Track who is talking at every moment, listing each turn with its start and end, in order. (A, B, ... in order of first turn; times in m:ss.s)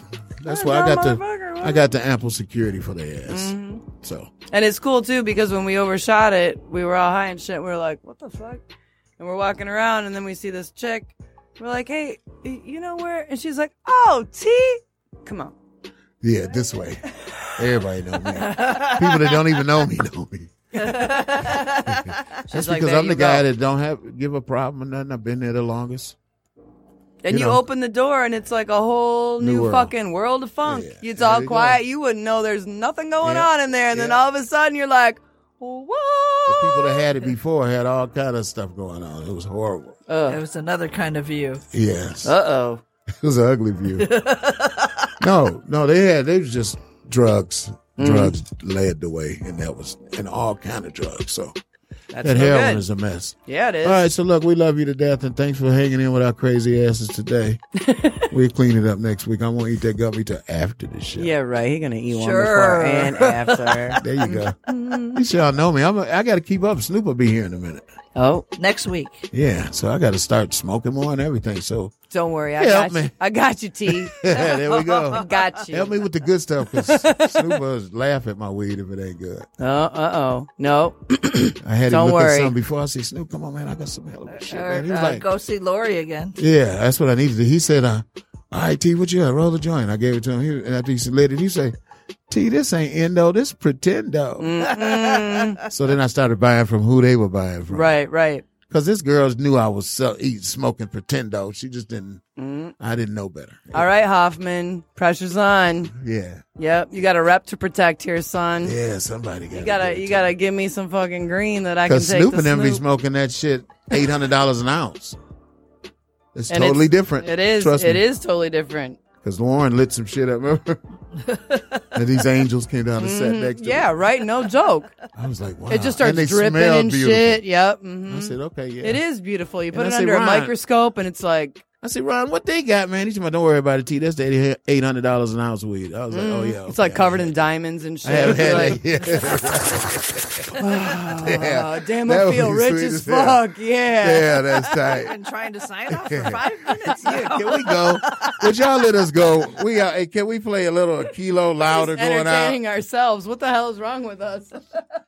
0:00.4-0:04.3 A
0:00.5-0:01.8 B
0:03.3-0:03.8 B
0:04.5-0:08.6 B
0:09.2-0:15.6 B
0:16.2-0:17.0 A
0:17.6-0:21.0 A
0:18.5-0:19.3 C
0:20.8-0:22.2 C
0:20.8-0:21.9 B
0:22.5-0:23.5 B
0:22.5-0:26.2 A
0:27.2-0:37.3 B
0:27.3-0:27.6 A
0:29.4-0:29.9 A
0:30.6-0:31.8 A
0:33.2-0:34.2 A
0:36.5-0:40.0 A
0:40.1-0:40.4 B
0:40.2-0:41.6 C
0:41.7-0:42.4 A
0:42.2-0:42.8 B
0:43.2-0:44.2 A
0:44.0-0:44.9 C
0:45.2-0:51.5 A
0:48.0-0:48.4 B
0:52.1-0:52.8 B
0:52.2-0:57.6 A
0:53.5-0:54.1 B
0:57.8-0:58.3 B
0:58.3-1:01.3 A
1:01.2-1:05.2 B
1:02.1-1:04.0 C
1:04.0-1:04.6 A
1:05.1-1:07.8 A
1:08.2-1:08.5 B
1:08.6-1:09.2 C
1:09.3-1:11.9 A
1:12.1-1:16.0 B
1:12.6-1:13.1 A
1:14.2-1:19.5 A
1:14.3-1:15.5 C
1:16.8-1:17.5 B
1:19.6-1:22.5 B
1:21.6-1:25.3 A
1:24.3-1:26.4 C
1:26.4-1:31.7 A
1:32.3-1:34.7 A
1:34.4-1:35.6 B
1:34.9-1:35.4 C
1:35.7-1:37.9 A
1:37.7-1:38.5 B
1:38.7-1:42.2 A
1:42.4-1:42.7 B
1:42.8-1:43.9 A
1:43.7-1:45.9 B
1:45.9-1:46.4 A
1:46.6-1:48.8 B
1:48.6-1:50.3 A
1:49.5-1:52.8 B
1:51.9-1:55.2 A
1:56.3-1:58.1 A
1:56.5-1:59.0 B
1:59.2-2:00.8 A
2:01.9-2:04.0 A
2:03.0-2:04.9 B
2:05.2-2:07.4 A
2:05.7-2:11.6 B
2:08.1-2:09.0 A
2:09.7-2:10.6 A
2:11.8-2:17.3 A
2:16.1-2:18.8 B
2:18.0-2:20.6 A
2:20.6-2:24.7 B
2:21.1-2:23.4 A
2:24.0-2:25.2 A
2:24.7-2:28.4 C
2:25.9-2:32.6 A
2:27.0-2:27.5 B
2:31.6-2:34.8 B